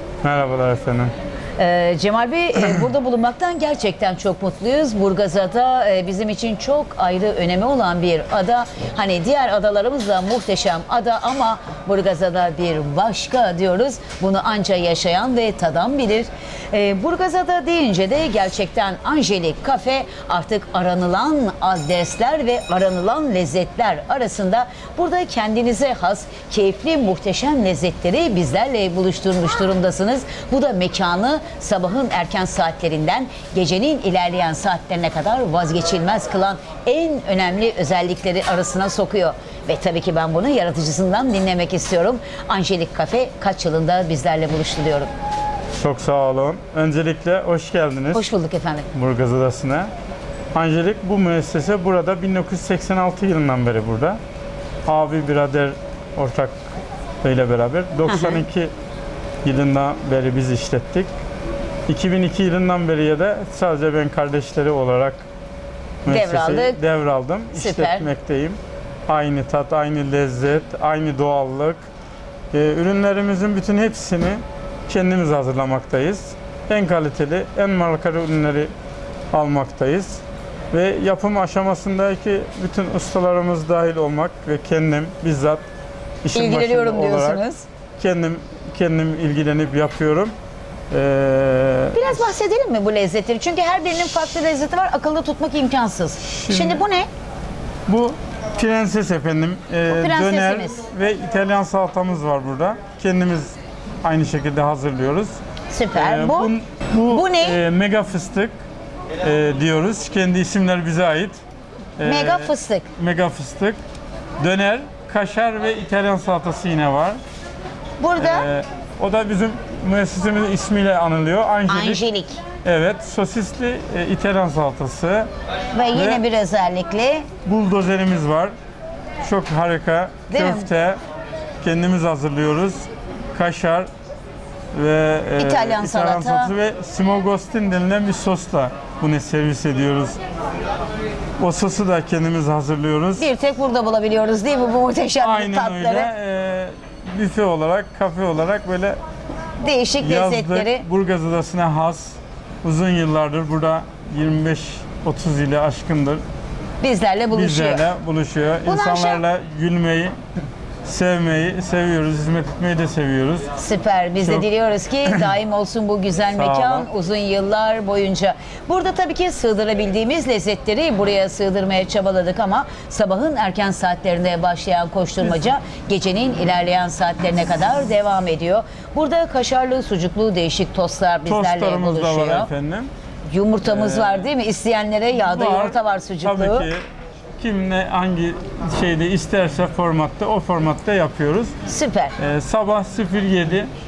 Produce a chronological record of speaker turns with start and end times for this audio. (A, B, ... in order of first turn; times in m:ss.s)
0:00.2-0:01.1 A
0:01.6-0:45.1 B
0:45.8-0:48.2 A
0:48.1-0:48.9 B
0:48.9-0:49.9 A
0:50.5-0:54.2 A
0:54.8-0:56.6 A
0:57.2-0:58.7 A
0:58.1-0:58.4 B
0:59.4-1:01.1 A
1:01.9-1:05.2 A
1:06.0-1:11.8 A
1:06.0-1:06.8 B
1:07.5-1:08.0 B
1:12.5-1:18.7 A
1:19.3-1:20.2 A
1:20.7-1:25.6 A
1:26.2-1:27.4 A
1:26.3-1:27.6 B
1:28.0-1:30.3 A
1:30.9-1:32.2 A
1:31.9-1:37.1 B
1:36.2-1:36.8 A
1:37.9-1:45.4 A
1:39.9-1:40.8 B
1:45.7-1:46.5 B
1:45.9-1:48.5 A
1:47.1-1:47.6 B
1:49.2-1:51.4 A
1:52.0-1:53.8 A
1:52.0-1:52.9 B
1:54.4-1:57.2 A
1:58.0-1:58.5 B
1:58.2-2:02.0 A
2:01.7-2:02.4 B
2:02.6-2:05.3 A
2:05.7-2:07.3 B
2:05.9-2:06.2 A
2:07.4-2:08.5 A
2:09.2-2:11.0 A
2:10.3-2:10.7 B
2:11.6-2:13.9 A
2:14.7-2:20.2 A
2:15.4-2:16.5 B
2:21.4-2:23.2 A
2:23.2-2:26.1 B
2:25.2-2:29.0 A
2:29.6-2:30.8 B
2:30.0-2:36.2 A
2:36.8-2:37.9 B
2:37.3-2:40.1 A
2:38.6-2:39.2 B
2:40.8-2:43.4 A
2:43.6-3:02.5 B
2:44.2-2:44.4 A
2:46.3-2:46.9 A
3:01.2-3:02.9 A
3:03.3-3:06.7 B
3:03.6-3:04.3 A
3:05.1-3:06.8 A
3:07.4-3:11.5 A
3:11.6-3:12.1 B
3:12.2-3:13.7 A